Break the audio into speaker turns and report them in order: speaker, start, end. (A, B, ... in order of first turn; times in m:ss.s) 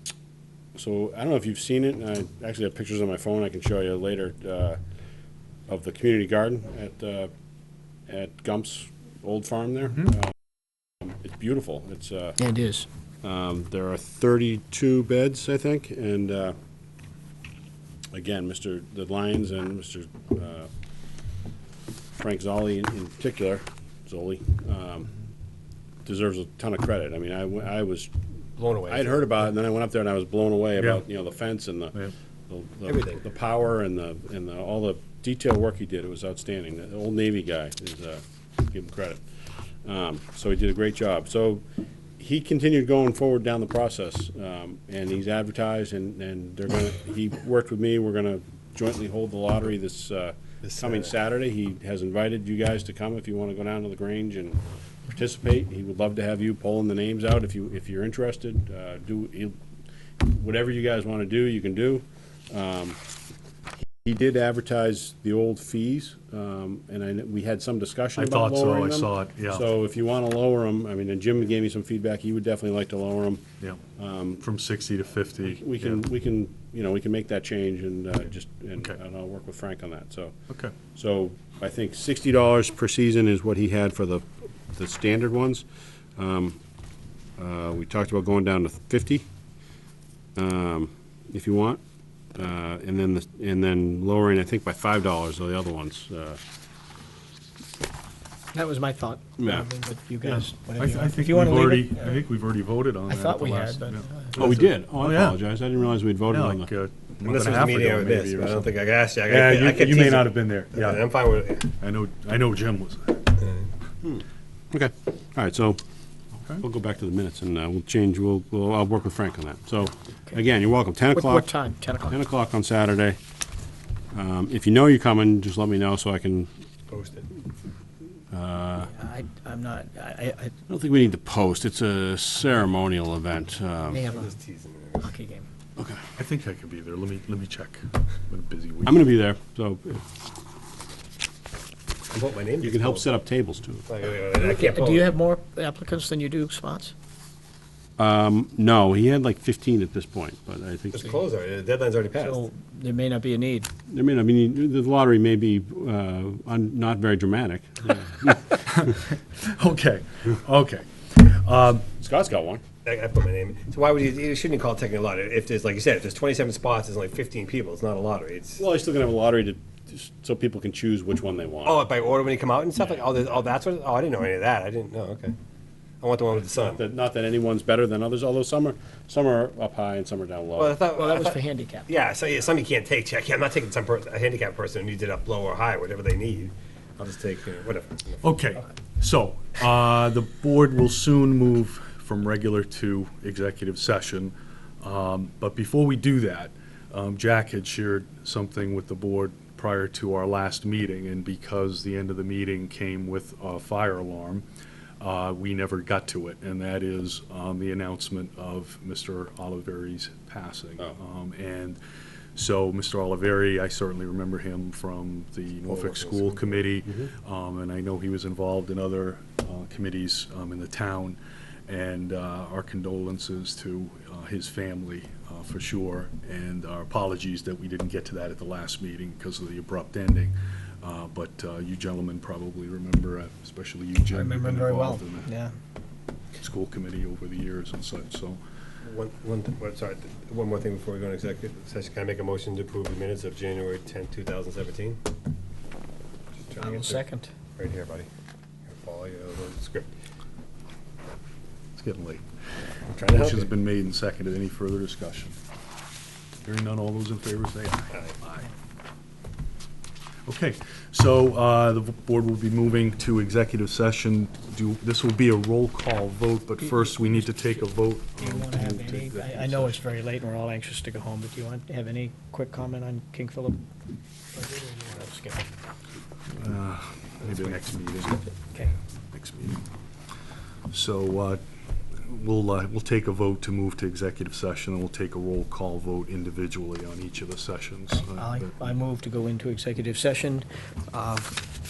0:00.8-0:04.8 A
0:05.7-0:07.3 A
0:08.1-0:10.4 A
0:11.0-0:12.4 A
0:12.4-0:12.9 B
0:13.2-0:16.6 A
0:18.1-0:20.7 A
0:22.2-0:25.1 A
0:26.0-0:28.1 A
0:28.6-0:29.5 C
0:28.9-0:32.0 A
0:30.8-0:31.0 D
0:32.5-0:41.6 A
0:32.9-0:33.2 C
0:42.2-0:59.6 A
0:50.6-0:51.1 C
1:00.2-1:03.0 A
1:03.8-1:13.4 A
1:08.2-1:09.7 D
1:14.0-1:14.4 A
1:14.4-1:16.1 D
1:15.5-1:20.4 A
1:20.5-1:20.8 D
1:20.9-1:26.6 A
1:27.4-1:29.3 A
1:30.4-1:31.8 A
1:32.3-1:36.4 A
1:38.5-1:42.2 B
1:39.4-1:39.7 A
1:40.2-1:45.5 D
1:43.1-1:44.6 B
1:44.4-1:46.7 A
1:46.3-1:48.7 D
1:47.2-1:51.7 C
1:49.2-1:51.1 D
1:51.6-1:53.3 D
1:53.4-1:54.2 C
1:54.7-1:55.8 A
1:56.6-2:03.2 A
2:01.1-2:02.2 B
2:04.1-2:06.5 A
2:06.9-2:07.3 C
2:08.3-2:08.9 A
2:08.9-2:10.5 B
2:10.7-2:14.1 A
2:13.9-2:14.3 B
2:14.1-2:15.1 C
2:15.0-2:15.5 B
2:15.8-2:16.0 A
2:16.2-2:19.1 D
2:18.8-2:20.0 A
2:22.1-2:23.1 C
2:22.6-2:23.9 A
2:23.9-2:25.2 C
2:24.3-2:26.9 B
2:28.0-2:31.1 A
2:30.9-2:32.4 C
2:32.2-2:33.7 B
2:33.9-2:38.5 A
2:38.7-2:41.9 D
2:42.0-2:42.6 A
2:42.8-2:48.6 C
2:48.6-2:51.9 A
2:51.6-2:55.4 C
2:56.0-2:56.8 C
2:56.4-3:00.8 A
3:00.6-3:08.2 C
3:00.9-3:01.9 B
3:08.2-3:24.5 D
3:25.0-3:31.8 D
3:32.4-3:55.3 D
3:35.6-3:36.7 C
3:54.1-3:55.5 B
3:56.4-3:58.4 D
3:58.8-4:05.0 C
4:06.5-4:08.1 C
4:06.6-4:07.3 B
4:08.7-4:09.9 C
4:11.8-4:12.2 D
4:12.9-4:13.5 C
4:13.1-4:15.4 D
4:16.4-4:18.5 D
4:20.3-4:29.8 D
4:26.6-4:27.6 B
4:28.2-4:33.6 B
4:34.3-4:35.5 B
4:36.3-4:38.2 D
4:38.1-4:38.8 B
4:39.1-4:39.6 D
4:40.7-4:41.4 D
4:42.0-4:48.6 D
4:48.1-4:51.4 B